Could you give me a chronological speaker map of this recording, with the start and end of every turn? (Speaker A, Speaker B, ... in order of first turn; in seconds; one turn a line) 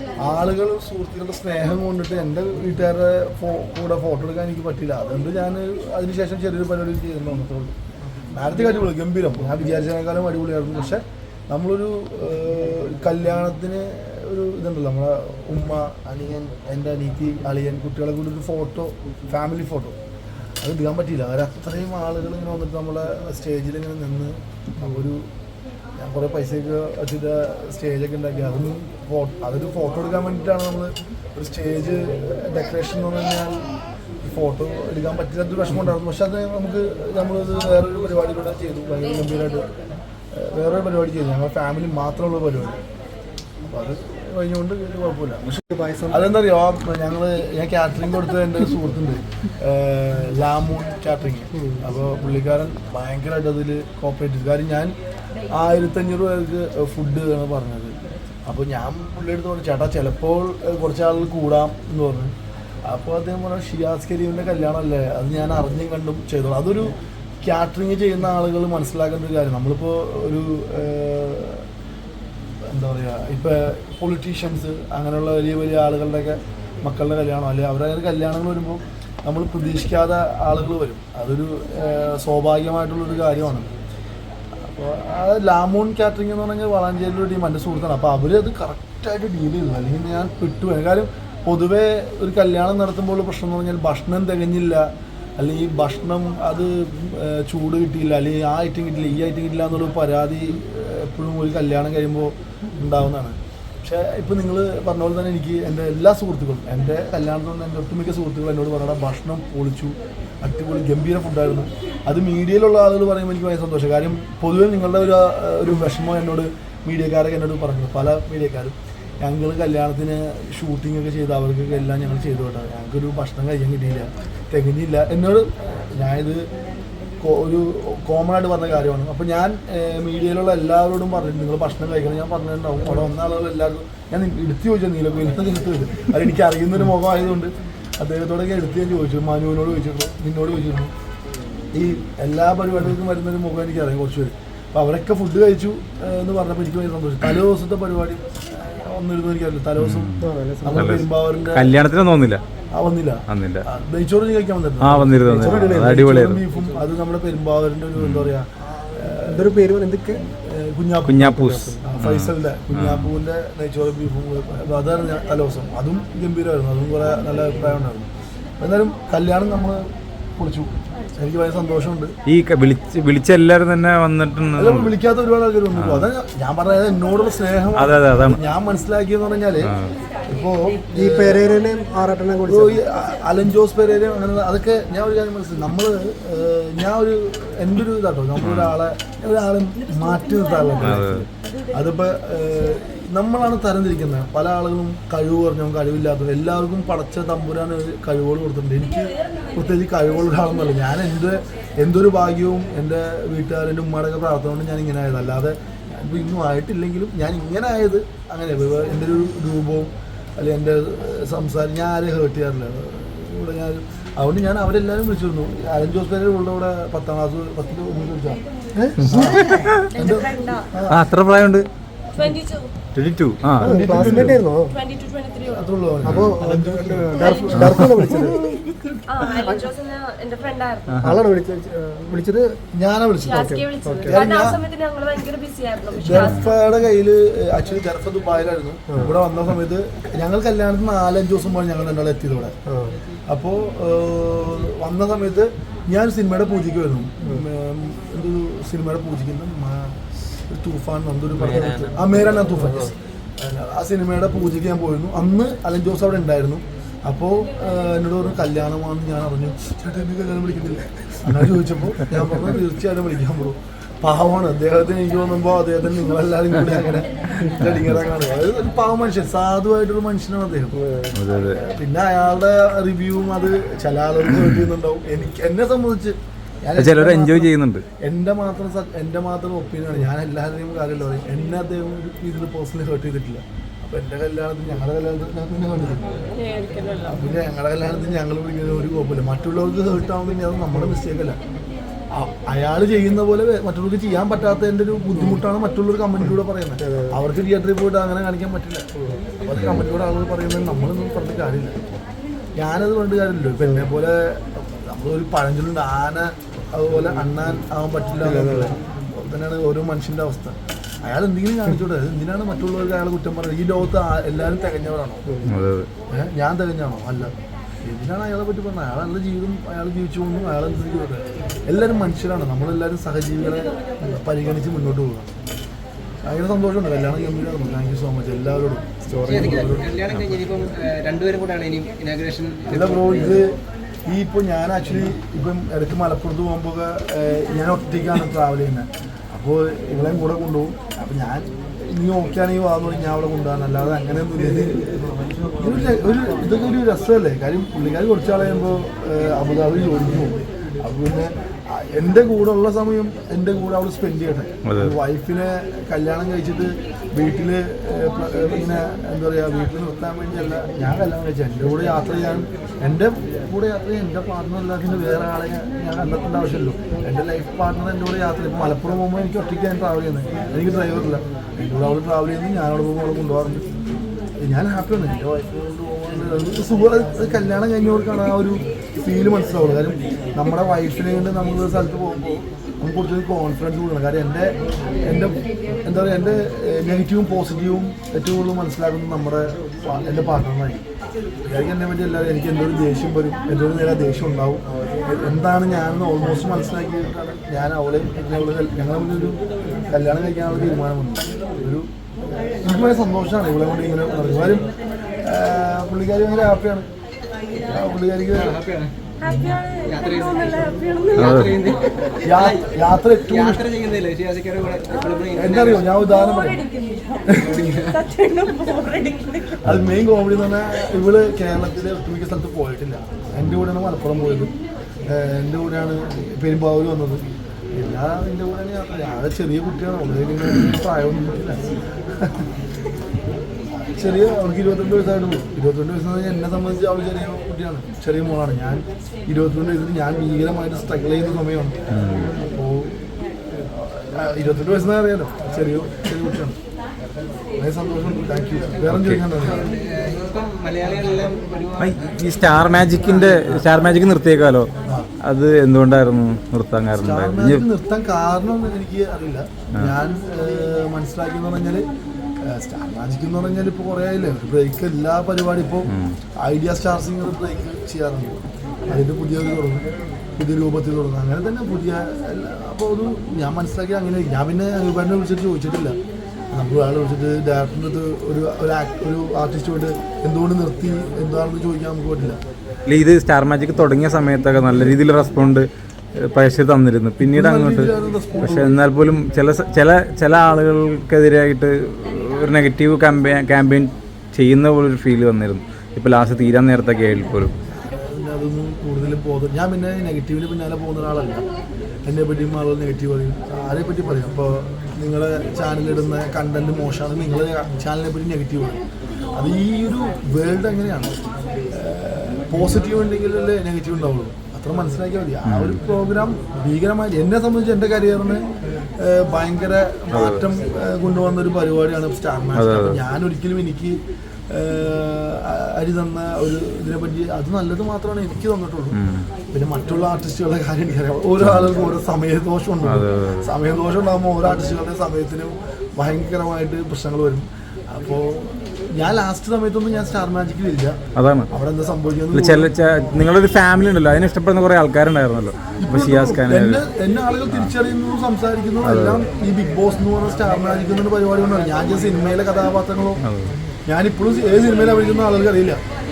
Speaker A: 0.2-7.7
Speaker A: 8.3-20.0
Speaker A: 20.6-25.3
Speaker A: 26.0-39.7
Speaker A: 40.3-42.8
Speaker A: 43.7-45.5
Speaker B: 45.5-46.2
Speaker A: 46.1-54.9
Speaker A: 55.5-58.0
Speaker A: 58.5-62.3
Speaker A: 62.9-71.7
Speaker A: 72.7-83.7
Speaker A: 84.6-94.9
Speaker A: 95.4-126.5
Speaker A: 127.2-140.9
Speaker A: 141.7-151.7
Speaker C: 149.8-152.4
Speaker B: 150.2-151.0
Speaker A: 152.7-159.6
Speaker C: 153.3-153.7
Speaker C: 154.8-156.4
Speaker B: 155.3-156.0
Speaker C: 158.0-158.3
Speaker B: 158.8-160.2
Speaker A: 160.2-172.1
Speaker C: 161.0-163.1
Speaker B: 161.4-161.8
Speaker C: 172.2-175.0
Speaker A: 174.6-179.7
Speaker C: 175.7-176.1
Speaker C: 177.8-178.4
Speaker C: 179.7-180.0
Speaker A: 180.3-181.5
Speaker B: 180.9-182.8
Speaker A: 182.5-221.0
Speaker C: 188.4-188.8
Speaker C: 190.8-191.2
Speaker C: 219.0-220.0
Speaker D: 219.4-220.7
Speaker C: 220.9-221.7
Speaker D: 222.2-222.7
Speaker C: 222.9-224.3
Speaker A: 223.6-224.4
Speaker B: 223.6-224.8
Speaker D: 224.7-225.7
Speaker A: 225.5-229.2
Speaker B: 226.0-228.7
Speaker C: 226.1-226.4
Speaker D: 227.2-227.6
Speaker C: 227.6-227.9
Speaker D: 229.1-231.0
Speaker C: 230.9-231.2
Speaker B: 231.0-232.6
Speaker A: 232.7-234.6
Speaker D: 233.2-236.6
Speaker B: 233.3-234.2
Speaker A: 235.9-242.6
Speaker C: 236.1-236.4
Speaker B: 242.7-243.0
Speaker A: 243.3-250.0
Speaker A: 250.5-270.9
Speaker C: 271.1-271.6
Speaker A: 271.4-286.4
Speaker C: 276.8-277.9
Speaker D: 286.4-287.2
Speaker A: 287.0-291.4
Speaker A: 292.1-298.9
Speaker B: 296.8-297.2
Speaker A: 299.4-301.8
Speaker C: 299.5-299.9
Speaker A: 302.6-315.3
Speaker B: 308.2-308.7
Speaker B: 315.3-315.5
Speaker C: 315.4-315.9
Speaker A: 316.1-317.3
Speaker A: 317.9-325.3
Speaker A: 326.2-329.9
Speaker B: 329.1-329.7
Speaker E: 329.3-333.4
Speaker A: 332.7-345.0
Speaker A: 345.6-373.6
Speaker C: 354.6-355.0
Speaker A: 374.4-390.9
Speaker A: 391.5-401.9
Speaker A: 402.4-404.7
Speaker A: 405.2-406.9
Speaker A: 407.7-408.6
Speaker E: 408.3-408.9
Speaker D: 409.2-412.2
Speaker E: 409.9-415.9
Speaker C: 411.2-411.6
Speaker A: 412.2-413.7
Speaker A: 415.3-416.7
Speaker D: 416.0-419.7
Speaker A: 417.2-417.7
Speaker E: 417.4-418.0
Speaker C: 419.6-420.1
Speaker A: 419.6-424.5
Speaker C: 423.4-423.7
Speaker A: 425.1-432.5
Speaker A: 433.7-443.0
Speaker C: 441.9-442.3
Speaker A: 443.5-446.6
Speaker A: 447.6-449.7
Speaker C: 448.9-449.2
Speaker E: 449.4-452.0
Speaker C: 451.8-454.7
Speaker C: 455.2-457.6
Speaker A: 457.0-461.9
Speaker A: 462.4-476.0
Speaker C: 465.9-466.2
Speaker A: 476.5-482.4
Speaker C: 482.9-497.5
Speaker A: 487.2-488.8
Speaker A: 497.9-501.4
Speaker A: 502.1-508.8
Speaker A: 509.3-511.1
Speaker A: 511.7-518.4
Speaker C: 515.4-515.8
Speaker A: 519.0-529.0
Speaker C: 520.1-520.4
Speaker C: 522.5-523.0
Speaker C: 528.9-529.3
Speaker A: 529.5-541.0
Speaker C: 531.4-531.7
Speaker C: 532.8-533.5
Speaker C: 541.1-541.5
Speaker A: 541.5-542.7
Speaker C: 542.3-546.8
Speaker A: 545.8-553.2
Speaker C: 548.8-549.2
Speaker C: 553.2-553.6
Speaker A: 553.9-555.8